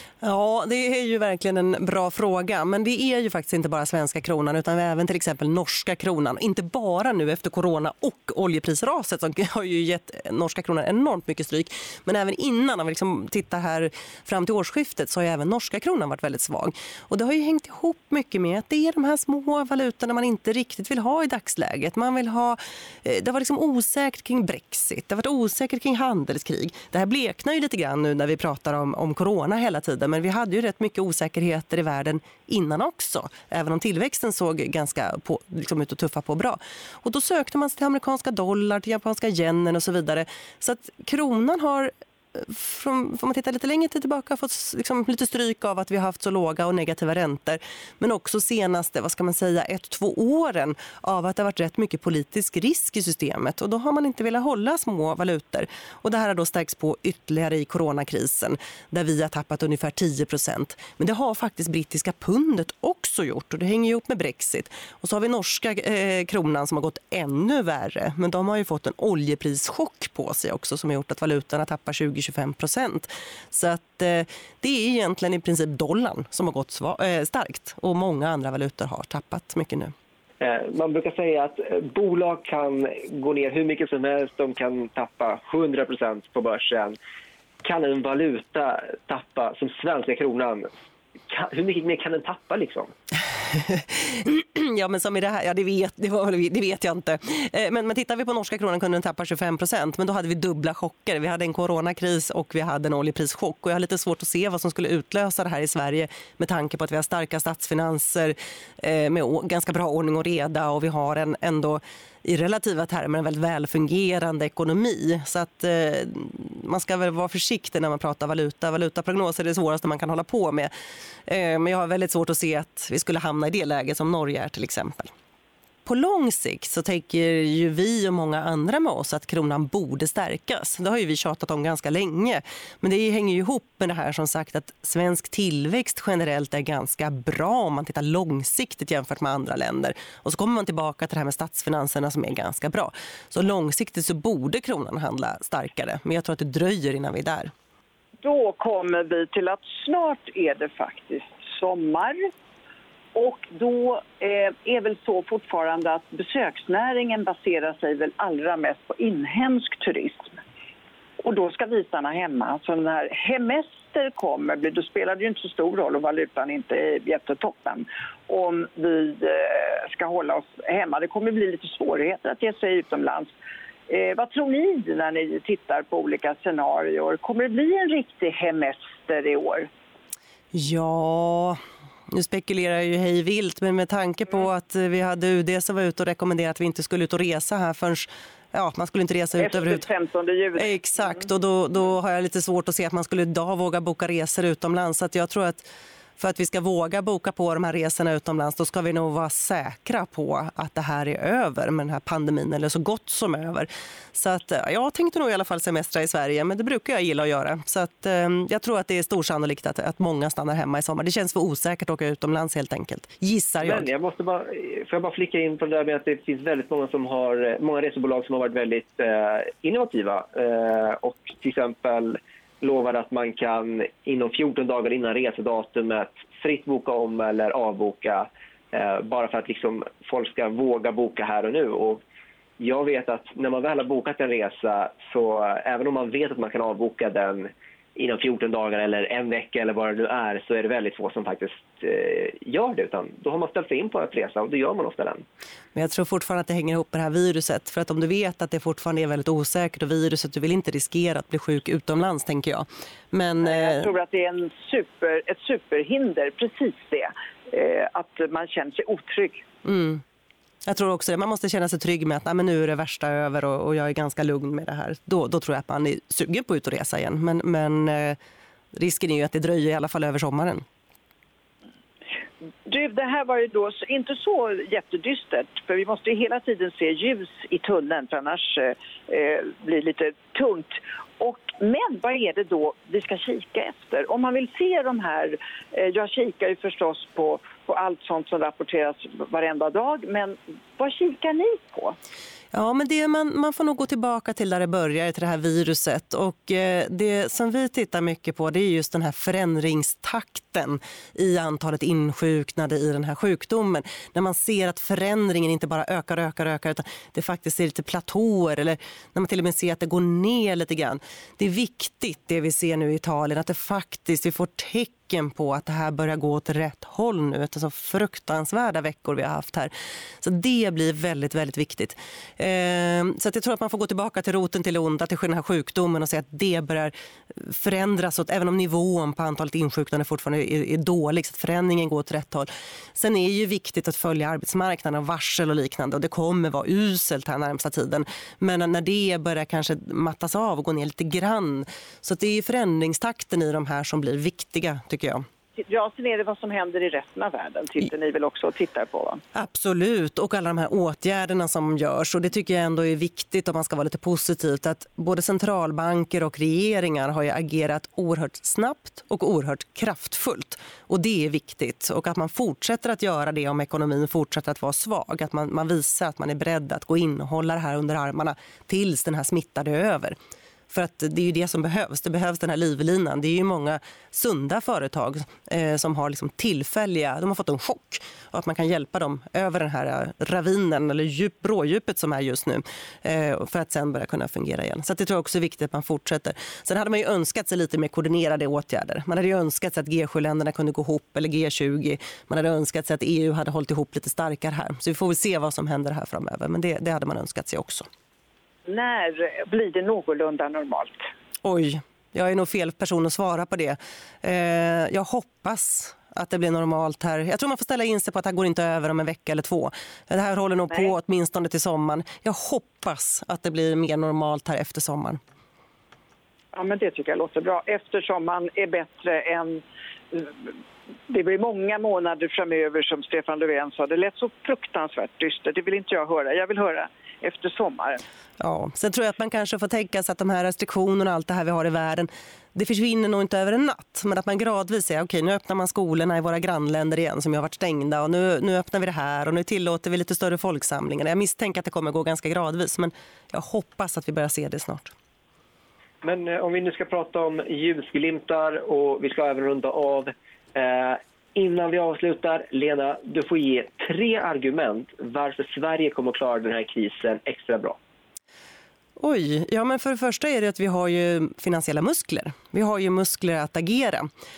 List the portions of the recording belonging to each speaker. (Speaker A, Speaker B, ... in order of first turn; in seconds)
Speaker A: 0.2-79.9, 93.4-120.7, 121.2-125.1, 125.8-147.5, 180.5-181.6, 182.1-189.9, 190.6-195.7, 196.2-213.9, 245.7-253.9, 259.6-260.0, 260.6-268.2, 268.7-270.6, 292.5-345.2, 349.3-370.1, 370.7-397.9, 401.4-415.2, 428.4-444.9, 459.0-464.1
Speaker B: 80.4-87.0, 87.6-90.7, 91.3-92.9, 213.6-232.0, 232.6-245.2, 446.0-457.8
Speaker C: 148.2-152.3, 153.1-160.4, 161.2-173.3, 173.9-179.7, 189.4-191.3, 253.4-259.4, 272.6-291.9, 345.6-349.2, 398.7-401.1, 416.5-420.5, 421.1-428.0